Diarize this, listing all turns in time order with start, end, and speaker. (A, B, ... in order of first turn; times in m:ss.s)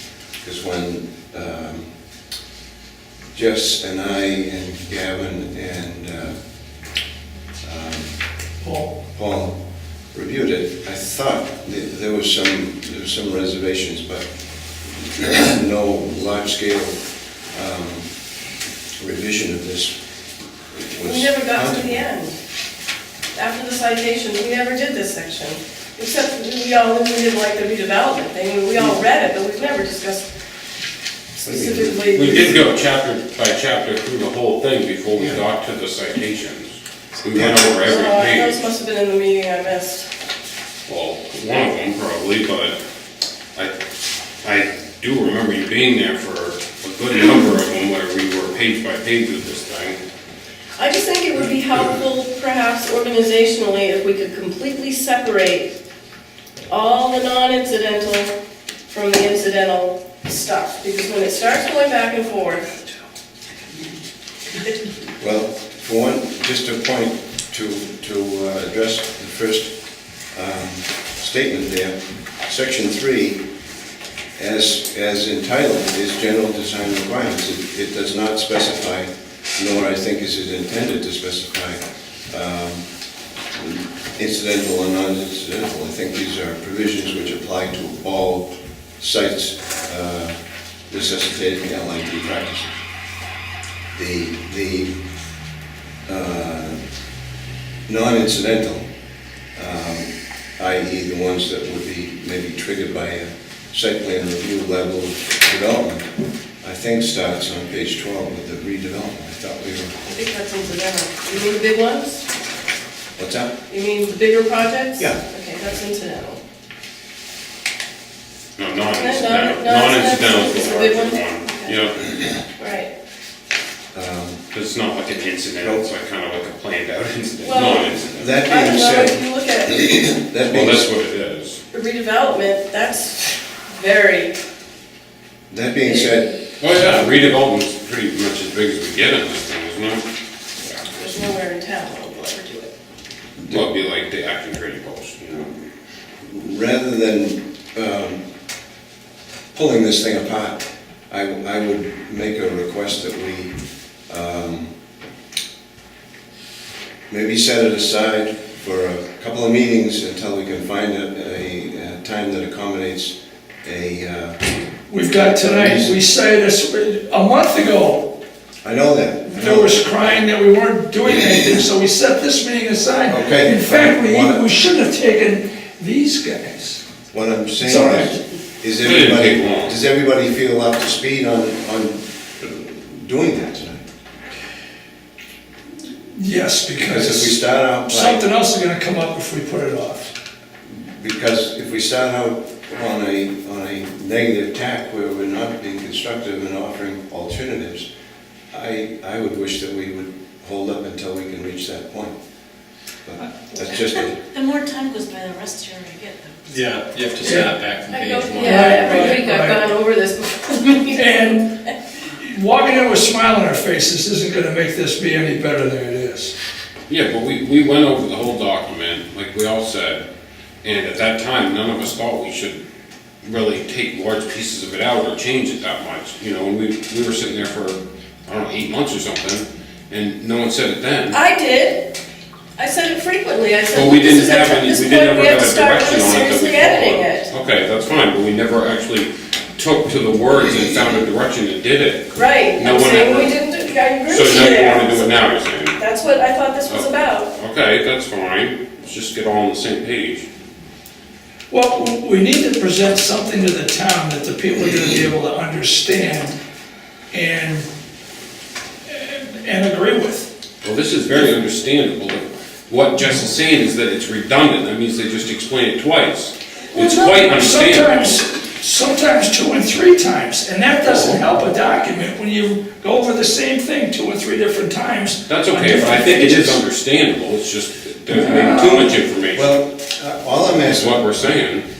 0:00.4-0:01.9 A
0:03.3-0:06.4 A
0:07.6-0:08.2 A
0:08.6-0:08.9 B
0:09.1-0:09.6 A
0:10.1-0:14.2 A
0:14.8-0:17.0 A
0:17.5-0:18.1 A
0:19.0-0:20.0 A
0:20.7-0:22.1 A
0:21.0-0:22.4 C
0:23.3-0:30.3 C
0:31.4-0:32.6 C
0:31.4-0:32.1 A
0:32.1-0:38.6 D
0:37.3-0:37.7 A
0:37.8-0:40.1 C
0:40.9-0:42.8 D
0:44.4-0:50.0 D
0:50.8-0:55.7 C
0:56.7-0:58.3 C
0:58.9-1:02.8 C
1:05.2-1:09.7 A
1:10.3-1:13.4 A
1:14.4-1:22.8 A
1:23.5-1:30.4 A
1:30.9-1:32.8 A
1:33.9-1:34.9 A
1:36.0-1:36.8 A
1:37.9-1:38.9 A
1:39.6-1:46.1 A
1:46.6-1:50.0 A
1:50.0-1:52.2 C
1:53.2-1:53.5 A
1:53.7-1:56.4 C
1:58.6-2:02.3 D
1:58.9-2:01.9 C
2:02.6-2:02.9 C
2:03.9-2:04.4 A
2:04.5-2:08.3 D
2:05.6-2:05.9 A
2:07.4-2:10.1 C
2:08.2-2:09.2 A
2:09.9-2:10.9 A
2:10.5-2:11.6 D
2:11.7-2:14.4 C
2:15.5-2:17.1 A
2:15.9-2:16.1 C
2:16.6-2:20.0 D
2:20.9-2:22.7 C
2:23.5-2:25.5 D
2:26.2-2:28.2 A
2:29.5-2:33.5 A
2:34.1-2:34.7 A
2:37.1-2:44.4 A
2:44.9-2:48.1 B
2:45.3-2:46.0 A
2:48.6-2:50.2 A
2:49.3-2:56.8 B
2:53.1-2:54.4 A
2:57.1-3:03.8 A
2:57.6-2:58.2 B
2:58.8-2:59.7 D
3:06.1-3:10.1 B
3:06.7-3:08.2 A
3:10.7-3:17.9 A
3:18.5-3:22.1 A
3:23.0-3:24.2 A
3:24.3-3:26.4 E
3:26.5-3:29.2 F
3:27.2-3:27.5 B
3:27.9-3:31.7 C
3:28.5-3:29.7 B
3:31.0-3:31.5 B
3:32.1-3:36.3 B
3:36.9-3:40.0 D
3:40.6-3:42.6 D
3:43.2-3:51.2 D
3:51.1-3:52.0 C
3:52.6-3:57.3 C
3:53.7-4:03.3 D
4:02.1-4:05.2 C
4:04.0-4:05.8 D
4:05.7-4:07.3 C
4:06.6-4:10.2 D
4:11.5-4:16.4 B
4:17.1-4:17.7 B
4:18.8-4:20.3 B
4:20.6-4:28.2 D
4:26.7-4:36.6 B
4:30.9-4:31.2 D
4:35.3-4:39.5 D
4:38.1-4:39.0 B
4:39.3-4:41.0 A
4:40.6-4:41.6 D